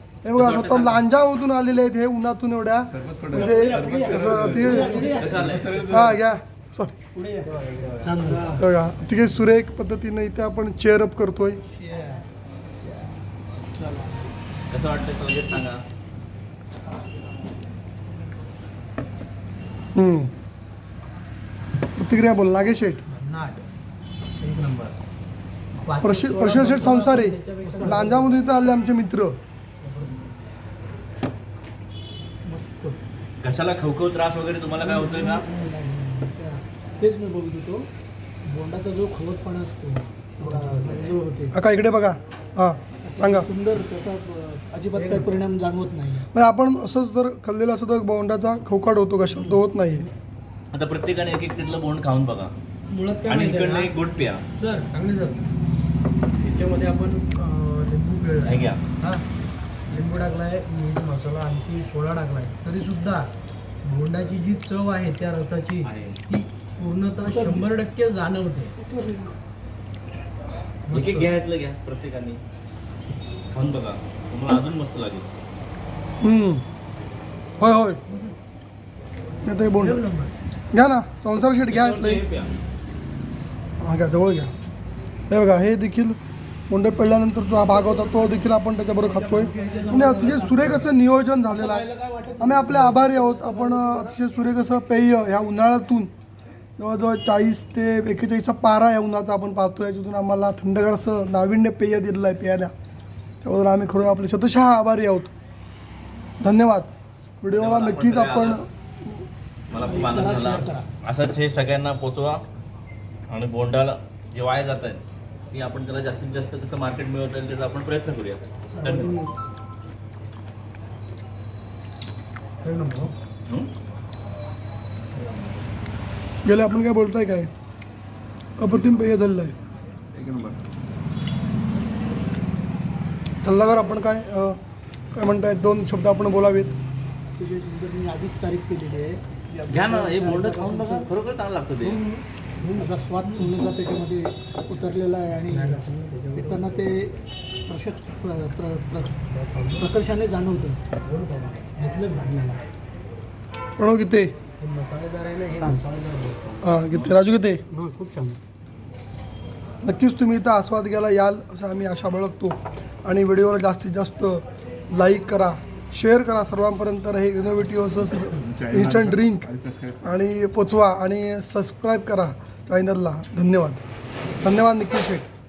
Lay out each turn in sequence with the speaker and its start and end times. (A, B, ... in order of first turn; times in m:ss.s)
0:00.2-0:05.0 A
0:00.3-0:01.0 B
0:02.9-0:06.3 C
0:03.3-0:06.1 D
0:03.4-0:05.5 E
0:05.2-0:05.8 B
0:05.8-0:07.0 A
0:07.2-0:08.6 D
0:07.6-0:08.3 E
0:08.6-0:11.6 A
0:11.8-0:12.2 D
0:13.7-0:14.3 D
0:14.7-0:15.8 B
0:19.9-0:20.3 A
0:22.0-0:23.0 A
0:23.1-0:23.7 E
0:24.4-0:25.0 E
0:25.8-0:28.3 E
0:26.0-0:29.4 A
0:27.6-0:28.1 D
0:29.8-0:30.2 E
0:32.4-0:33.0 D
0:33.4-0:35.4 B
0:34.8-0:37.9 D
0:38.4-0:41.5 D
0:40.4-0:41.1 E
0:41.5-0:43.5 A
0:43.0-0:46.3 D
0:44.9-0:45.3 E
0:46.3-0:50.0 A
0:49.3-0:49.6 B
0:50.7-0:52.5 B
0:52.9-0:53.9 E
0:53.3-0:54.4 B
0:54.6-0:55.4 E
0:56.4-0:59.2 E
0:58.4-0:58.8 B
0:59.9-1:03.3 E
1:03.8-1:08.7 E
1:05.8-1:06.2 B
1:07.2-1:07.7 D
1:08.8-1:09.3 D
1:10.9-1:11.4 E
1:10.9-1:12.4 B
1:13.5-1:15.3 B
1:16.2-1:16.6 A
1:17.6-1:18.0 A
1:19.4-1:20.0 A
1:19.8-1:20.4 E
1:20.7-1:22.2 A
1:21.6-1:22.5 B
1:23.8-1:24.5 A
1:25.3-1:26.2 A
1:26.7-1:31.8 A
1:27.7-1:28.4 D
1:29.0-1:30.9 D
1:31.5-1:34.2 D
1:32.4-1:36.1 A
1:36.8-1:42.7 A
1:43.4-1:45.3 A
1:46.4-1:49.2 A
1:47.5-1:48.6 B
1:49.7-1:52.4 B
1:49.7-1:50.8 D
1:53.3-1:59.1 B
1:58.7-1:59.3 D
2:02.6-2:03.1 E
2:06.4-2:07.5 A
2:08.6-2:09.5 A
2:08.7-2:09.0 C
2:10.1-2:10.6 C
2:13.4-2:14.6 A
2:15.1-2:16.7 A
2:17.4-2:21.1 D
2:19.7-2:22.0 B
2:21.8-2:22.2 D
2:22.6-2:23.5 E
2:22.7-2:25.8 D
2:25.5-2:26.8 E
2:26.3-2:29.2 D
2:29.3-2:29.9 E
2:29.8-2:30.8 D
2:31.0-2:31.7 E
2:31.7-2:32.6 D
2:33.8-2:34.3 A
2:34.6-2:36.6 E
2:36.6-2:37.6 A
2:37.7-2:38.4 D
2:39.8-2:49.5 A
2:48.4-2:50.1 C
2:50.0-2:53.8 A
2:54.4-2:55.3 A